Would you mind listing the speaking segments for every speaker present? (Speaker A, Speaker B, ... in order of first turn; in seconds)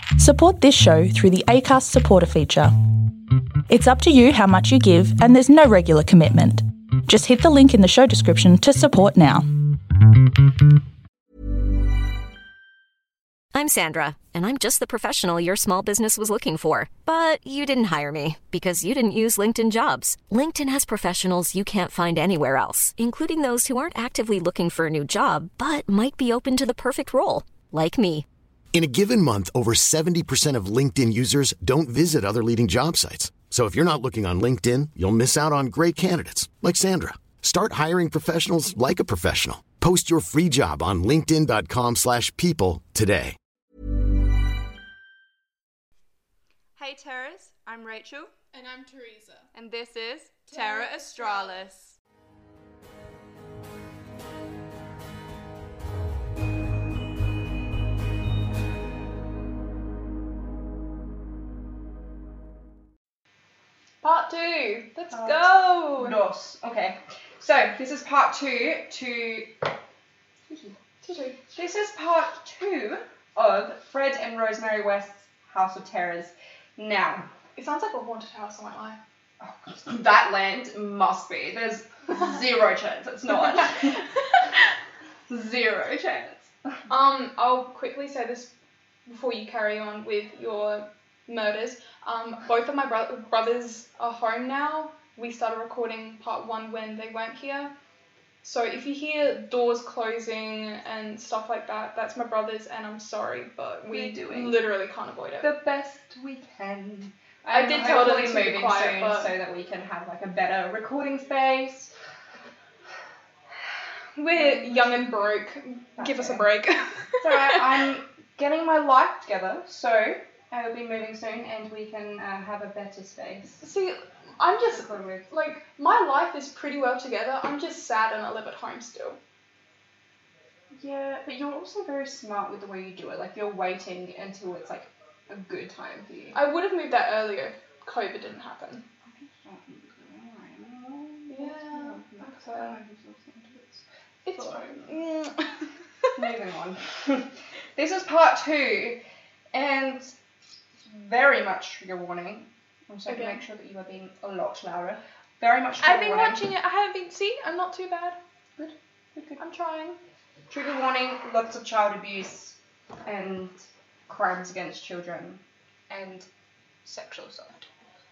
Speaker A: 0.1-10.5
Speaker B: 13.5-28.2
Speaker C: 28.7-43.4
Speaker D: 46.8-48.3, 49.5-52.0, 65.1-69.5, 70.5-70.8, 71.5-77.2, 79.4-84.0, 85.3-86.5, 103.9-104.6, 105.4-111.9, 114.3-115.2, 116.0-116.5, 117.2-123.6, 124.7-125.3, 130.7-136.4, 139.0-145.0, 146.2-149.0, 149.5-150.1, 150.8-156.5, 158.6-159.4, 160.5-163.6, 164.1-166.3, 166.8-167.7
Speaker E: 48.5-49.5, 50.5-51.6, 64.0-66.2, 71.0-71.4, 77.5-79.0, 83.5-84.5, 86.9-88.5, 89.0-97.7, 98.4-105.5, 107.5-109.3, 114.2-117.8, 123.6-129.2, 136.3-138.8, 141.3-142.8, 144.2-146.1, 153.1-153.4, 155.8-158.2, 159.4-160.0